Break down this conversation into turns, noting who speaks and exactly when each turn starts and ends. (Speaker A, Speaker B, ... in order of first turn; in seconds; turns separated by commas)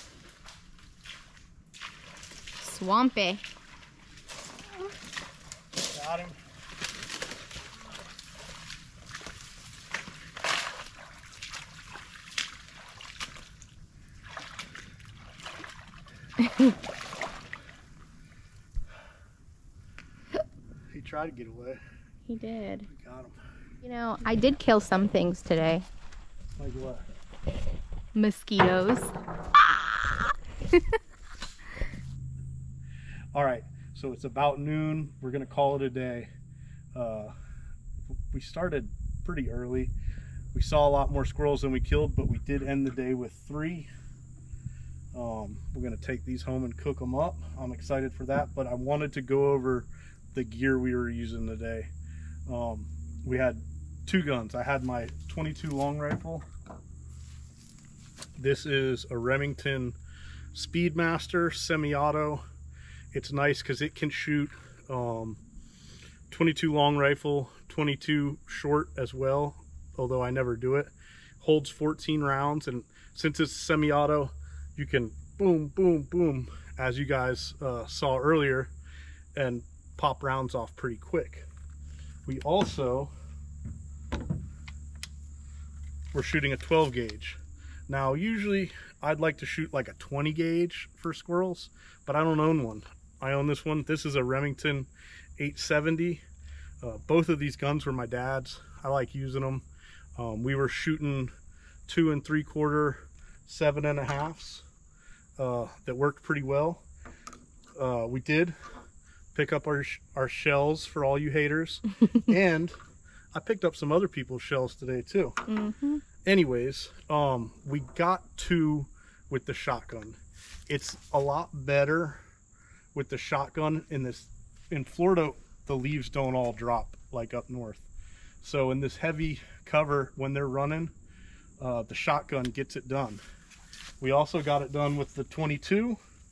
Speaker A: 2.6-3.4, Speaker B: 5.9-6.4, Speaker B: 20.9-21.8, Speaker A: 22.3-22.9, Speaker B: 22.9-23.4, Speaker A: 23.8-25.9, Speaker B: 26.6-27.0, Speaker A: 28.1-29.1, Speaker B: 33.3-36.3, Speaker B: 36.9-37.3, Speaker B: 38.3-39.9, Speaker B: 40.5-43.9, Speaker B: 45.1-51.9, Speaker B: 52.5-56.5, Speaker B: 58.4-60.0, Speaker B: 60.5-62.4, Speaker B: 63.1-65.4, Speaker B: 66.3-78.7, Speaker B: 79.3-81.5, Speaker B: 82.2-83.1, Speaker B: 86.1-96.2, Speaker B: 96.8-99.6, Speaker B: 100.2-101.3, Speaker B: 101.9-104.6, Speaker B: 105.4-106.8, Speaker B: 107.8-108.5, Speaker B: 109.3-112.8, Speaker B: 113.3-115.4, Speaker A: 115.5-116.0, Speaker B: 116.2-122.2, Speaker B: 122.9-127.9, Speaker B: 128.4-130.9, Speaker B: 131.6-133.2, Speaker B: 134.0-136.0